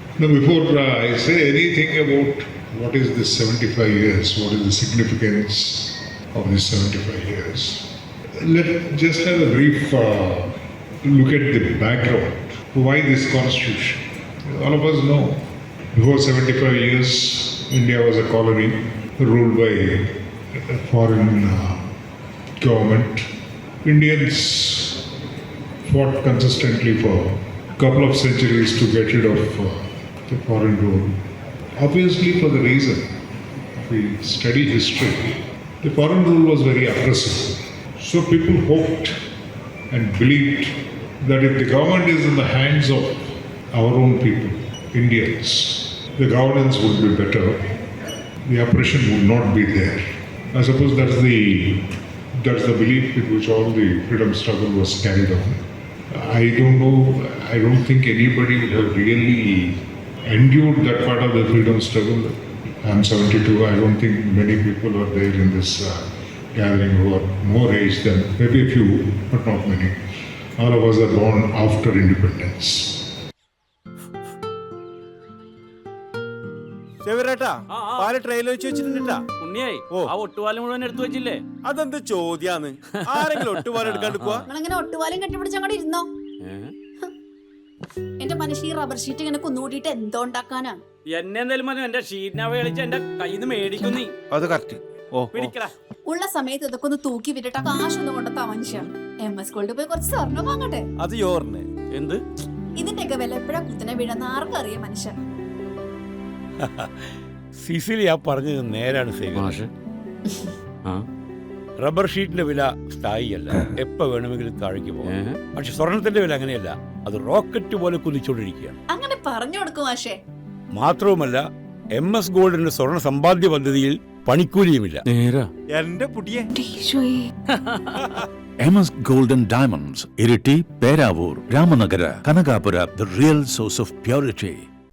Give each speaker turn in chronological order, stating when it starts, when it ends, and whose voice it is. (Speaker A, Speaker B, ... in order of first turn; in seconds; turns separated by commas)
Speaker A: 0.2-21.9, Speaker A: 22.6-23.3, Speaker A: 23.8-25.1, Speaker A: 25.8-31.2, Speaker A: 31.8-33.1, Speaker A: 33.7-39.2, Speaker A: 39.9-47.7, Speaker A: 48.5-50.0, Speaker A: 50.5-70.0, Speaker A: 70.6-73.0, Speaker B: 77.0-79.2, Speaker C: 77.7-78.1, Speaker C: 79.4-81.4, Speaker B: 81.6-84.5, Speaker C: 83.1-84.4, Speaker D: 84.5-86.1, Speaker C: 86.4-86.7, Speaker D: 88.2-90.8, Speaker C: 91.1-94.1, Speaker B: 94.3-95.5, Speaker C: 95.3-95.7, Speaker D: 96.1-100.8, Speaker B: 101.0-101.7, Speaker C: 101.9-102.2, Speaker D: 102.8-105.2, Speaker E: 106.6-106.9, Speaker E: 107.6-109.6, Speaker C: 109.3-109.7, Speaker E: 111.8-118.8, Speaker C: 115.0-115.4, Speaker D: 118.9-120.2, Speaker E: 120.7-125.0, Speaker C: 125.1-125.5, Speaker B: 125.7-126.5, Speaker F: 128.6-134.6